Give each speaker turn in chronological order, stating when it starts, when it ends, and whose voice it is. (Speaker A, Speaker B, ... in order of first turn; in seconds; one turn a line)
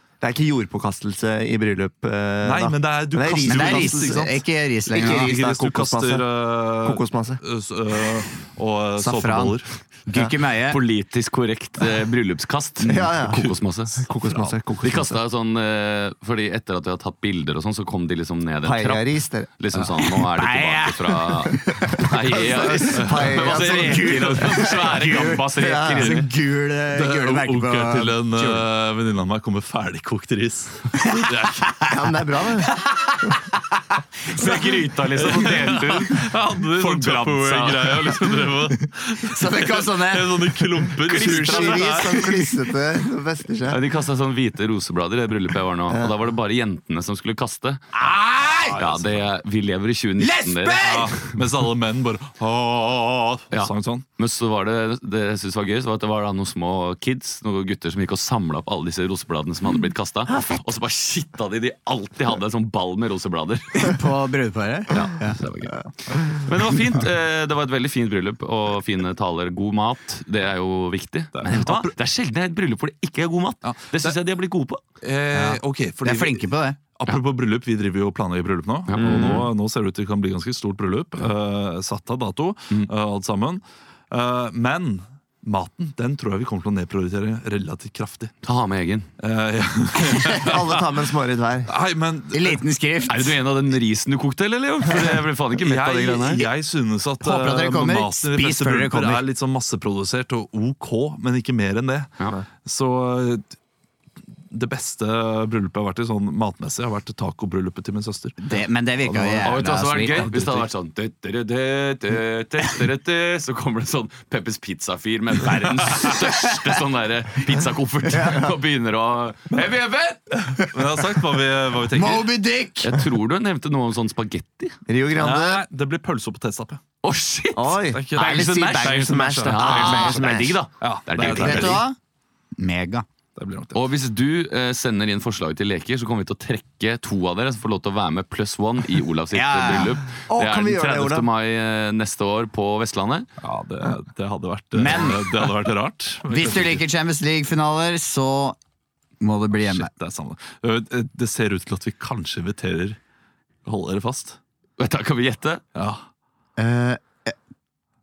Speaker A: 0.2-6.3
Speaker B: 2.4-4.4
Speaker C: 3.3-5.3
Speaker B: 5.0-9.7
Speaker A: 6.8-7.4
Speaker C: 9.0-10.8
Speaker D: 10.7-14.1
Speaker A: 12.8-15.2
Speaker B: 14.2-14.5
Speaker D: 14.8-26.3
Speaker A: 18.6-19.5
Speaker C: 20.0-22.1
Speaker A: 22.4-24.8
Speaker C: 22.6-28.6
Speaker A: 25.6-26.0
Speaker B: 26.9-31.9
Speaker C: 31.0-31.9
Speaker A: 31.9-32.7
Speaker D: 34.3-38.5
Speaker C: 34.3-34.8
Speaker B: 35.1-42.4
Speaker C: 39.2-41.5
Speaker A: 41.0-43.8
Speaker D: 41.0-42.0
Speaker D: 43.7-47.9
Speaker C: 47.9-48.8
Speaker D: 48.7-51.3
Speaker B: 48.8-49.1
Speaker C: 50.2-51.1
Speaker B: 50.8-54.0
Speaker D: 53.5-64.0
Speaker C: 63.8-65.4
Speaker D: 64.9-74.8
Speaker B: 71.3-71.9
Speaker B: 73.6-74.2
Speaker B: 75.0-88.3
Speaker C: 75.3-76.8
Speaker D: 78.9-79.5
Speaker A: 79.0-79.5
Speaker D: 88.4-89.1
Speaker B: 89.2-90.8
Speaker A: 90.2-91.7
Speaker B: 91.7-92.6
Speaker C: 92.3-93.4
Speaker D: 93.1-96.5
Speaker B: 95.6-102.1
Speaker C: 97.2-99.2
Speaker B: 102.6-103.5
Speaker B: 104.5-108.4
Speaker C: 108.4-110.4
Speaker B: 109.0-110.7
Speaker D: 109.4-120.2
Speaker B: 120.6-122.3
Speaker C: 121.9-123.0
Speaker D: 122.8-124.8
Speaker A: 124.9-125.6
Speaker B: 125.2-126.8
Speaker D: 127.0-131.8
Speaker A: 127.5-130.6
Speaker B: 127.9-130.2
Speaker B: 130.8-131.8
Speaker C: 131.2-131.9
Speaker C: 132.6-133.0
Speaker B: 133.3-133.8
Speaker D: 133.7-143.3
Speaker C: 139.3-140.0
Speaker A: 140.3-141.3
Speaker B: 143.4-146.8
Speaker C: 144.7-145.3
Speaker C: 146.3-148.6
Speaker C: 149.2-149.9
Speaker B: 149.6-153.0
Speaker B: 153.6-154.4
Speaker D: 154.8-155.6
Speaker B: 155.7-156.0
Speaker C: 156.6-157.3